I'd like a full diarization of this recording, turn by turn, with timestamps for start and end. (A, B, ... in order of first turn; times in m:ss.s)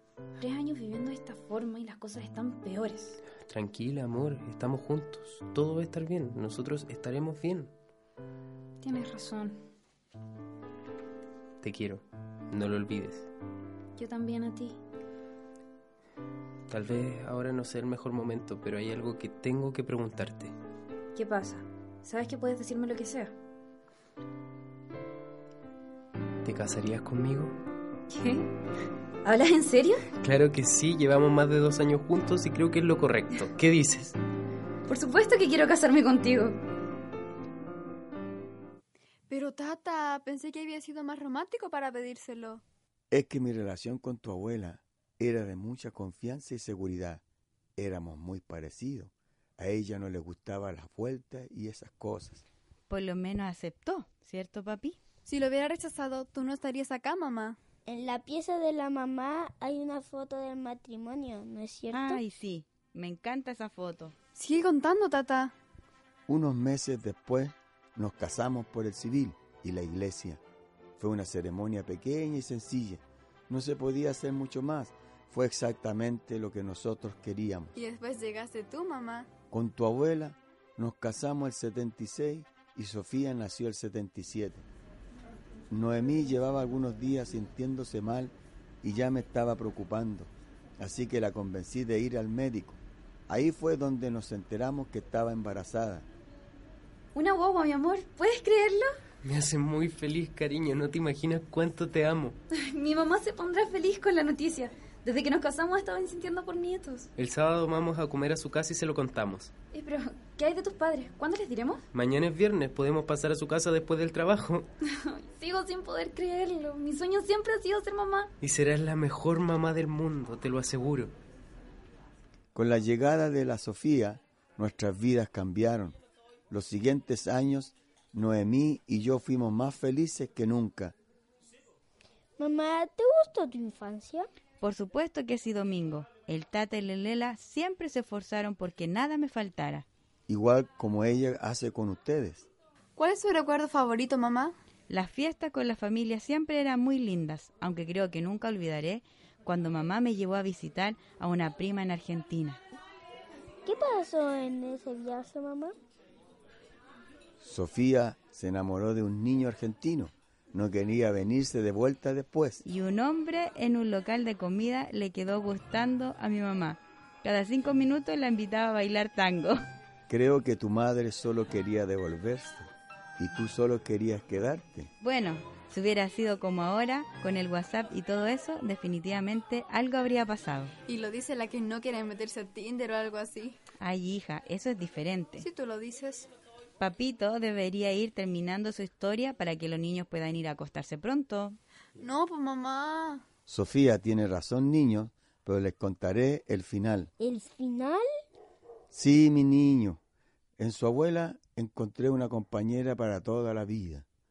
0:00.4-0:03.2 A
0:03.4-0:07.7 B
0:08.8-0:09.6 A
0:11.6-0:13.3 B
0:14.0-0:14.8 A
0:16.7-0:20.6 B
0:21.2-0:23.3 A
0:26.4-0:27.6 B
0:28.1-0:28.5 A
0:29.2-0:30.0 A
0:30.2-0:34.2 B
0:34.9-0:36.6 A
0:39.3-0:42.6 C
0:43.1-0:47.2 D
0:47.8-0:52.4 D
0:52.9-0:55.0 E
0:55.3-0:57.6 C
0:57.9-1:02.2 F
1:01.9-1:04.2 E
1:04.4-1:05.5 C
1:06.3-1:10.4 D
1:11.0-1:17.7 D
1:17.8-1:19.3 C
1:19.5-1:24.6 D
1:25.7-1:36.1 D
1:37.1-1:38.9 A
1:39.2-1:42.4 B
1:42.5-1:47.1 A
1:47.2-1:49.5 B
1:49.7-1:51.8 A
1:51.9-1:54.7 B
1:54.9-1:58.3 A
1:58.4-2:01.2 B
2:02.6-2:06.0 D
2:06.5-2:11.0 D
2:12.4-2:14.3 F
2:14.6-2:19.9 E
2:20.3-2:22.5 D
2:23.0-2:24.6 C
2:24.9-2:32.6 E
2:33.7-2:35.8 F
2:37.4-2:42.6 D
2:42.6-2:49.6 E
2:50.1-2:54.9 D
2:55.0-3:00.7 E
3:00.9-3:03.6 C
3:03.8-3:05.5 E
3:05.4-3:06.3 C
3:06.8-3:11.6 E
3:12.0-3:13.2 C
3:13.5-3:17.1 D
3:17.2-3:18.0 F
3:18.9-3:20.0 D
3:20.6-3:24.1 D